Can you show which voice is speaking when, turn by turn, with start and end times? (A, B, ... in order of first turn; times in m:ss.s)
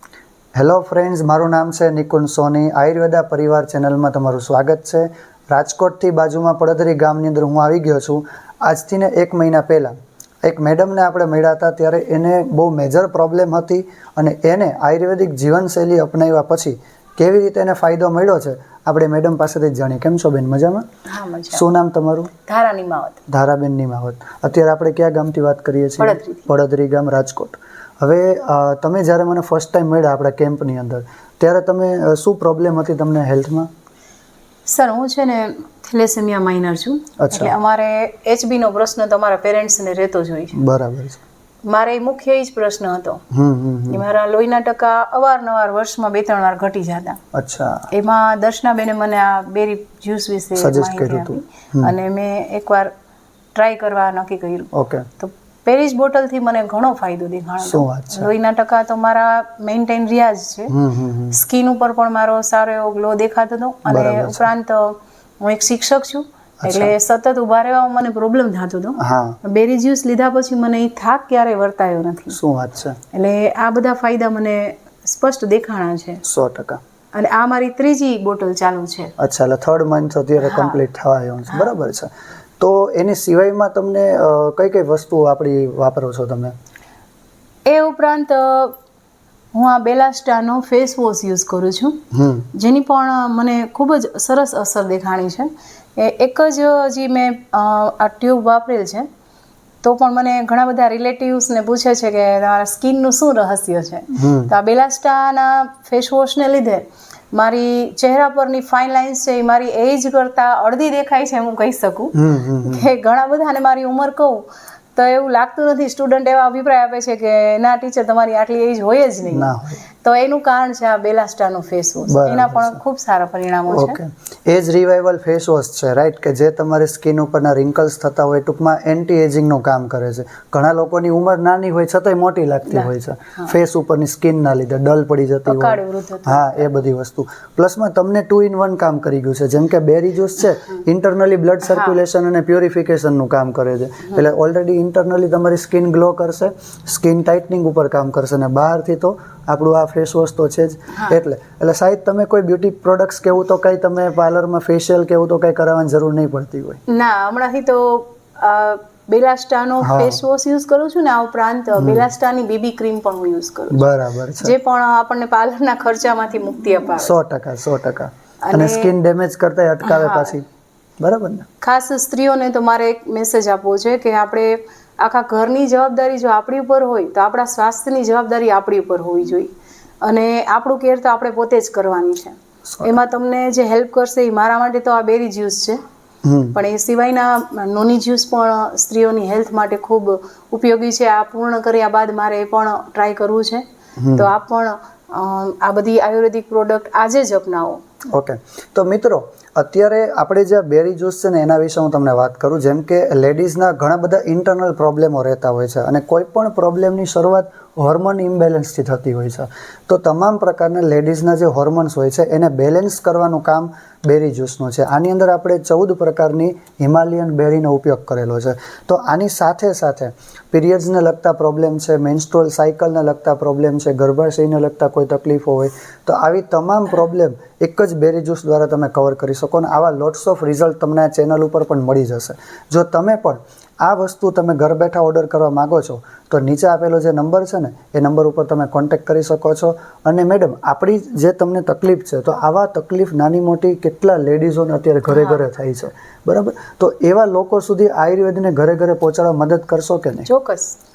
0:00.6-0:20.9 A
0:21.1-0:21.6 B
0:21.5-0:22.3 A
0:22.5-0:23.2 B
0:23.3-0:33.7 A
0:26.0-0:26.5 B
0:34.7-0:40.6 B
0:37.2-0:37.5 A
0:40.6-0:41.2 A
0:41.6-0:43.2 B
0:43.3-0:44.0 A
0:43.9-0:47.2 B
0:47.3-0:47.9 A
0:47.9-0:52.9 B
0:50.6-0:51.9 A
0:53.6-1:00.7 B
0:54.7-0:55.1 A
0:57.6-0:58.3 A
1:00.7-1:01.4 A
1:01.3-1:12.4 B
1:03.9-1:04.5 A
1:06.6-1:06.9 A
1:09.0-1:09.4 A
1:12.3-1:13.0 A
1:13.1-1:16.2 B
1:16.2-1:16.8 A
1:17.1-1:19.1 B
1:19.2-1:26.6 A
1:20.4-1:20.8 B
1:21.5-1:21.8 B
1:27.7-1:28.8 B
1:29.5-1:32.0 B
1:32.1-1:32.5 A
1:32.5-1:39.1 B
1:39.8-2:04.0 B
1:44.2-1:44.5 A
1:52.2-1:52.9 A
1:59.3-1:59.8 A
2:02.1-2:02.8 A
2:03.7-2:36.8 A
2:12.7-2:13.5 B
2:15.5-2:16.7 B
2:21.6-2:22.0 B
2:36.9-2:43.8 B
2:39.8-2:40.2 A
2:41.8-2:42.1 A
2:43.7-2:44.5 A
2:44.4-2:47.2 B
2:47.0-2:50.4 A
2:48.4-2:48.9 B
2:49.8-2:50.4 B
2:51.0-2:51.5 A
2:51.6-3:05.8 B
3:02.7-3:03.0 A
3:06.2-3:06.6 A
3:06.5-3:13.6 B
3:14.0-3:14.3 A
3:14.2-3:17.8 B
3:18.1-4:10.3 A
4:05.1-4:05.4 B
4:10.3-4:10.8 B